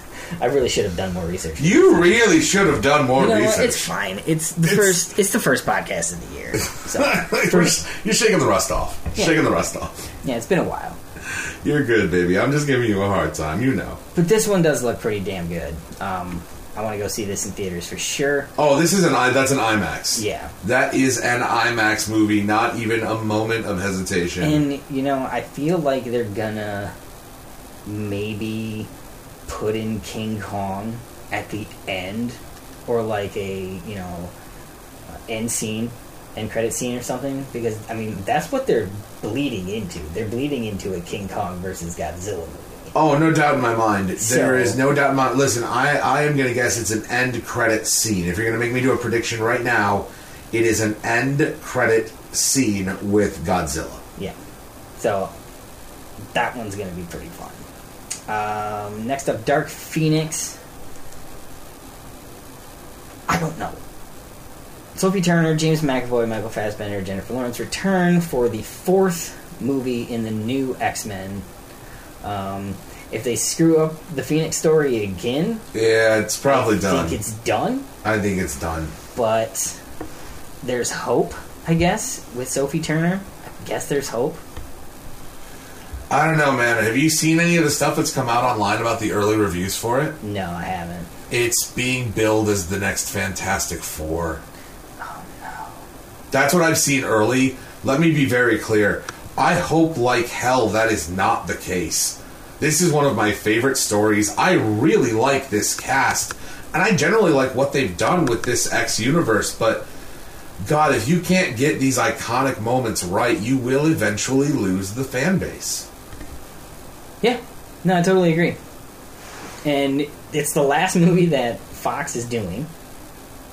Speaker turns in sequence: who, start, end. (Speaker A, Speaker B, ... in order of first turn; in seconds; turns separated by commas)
Speaker A: 0.4-2.2, Speaker B: 1.6-3.9, Speaker A: 3.2-7.8, Speaker B: 4.6-5.0, Speaker B: 6.8-10.1, Speaker A: 10.2-11.0, Speaker B: 11.3-14.0, Speaker A: 14.1-18.5, Speaker B: 18.6-24.6, Speaker A: 20.2-20.5, Speaker A: 24.4-26.9, Speaker A: 27.9-28.9, Speaker A: 29.5-34.3, Speaker A: 35.3-42.9, Speaker B: 42.9-54.0, Speaker A: 44.2-44.8, Speaker A: 55.0-55.3, Speaker A: 56.3-57.6, Speaker A: 58.3-60.6, Speaker A: 63.3-63.8, Speaker A: 65.0-71.5, Speaker A: 72.2-75.6, Speaker B: 75.7-77.2, Speaker A: 76.5-77.9, Speaker B: 78.0-78.9, Speaker A: 79.2-79.8, Speaker A: 80.6-84.4, Speaker B: 86.1-90.2, Speaker A: 90.2-91.1, Speaker B: 91.3-94.4, Speaker A: 95.0-95.8, Speaker B: 96.3-109.9, Speaker B: 110.6-115.9, Speaker A: 117.2-118.6, Speaker A: 119.6-122.7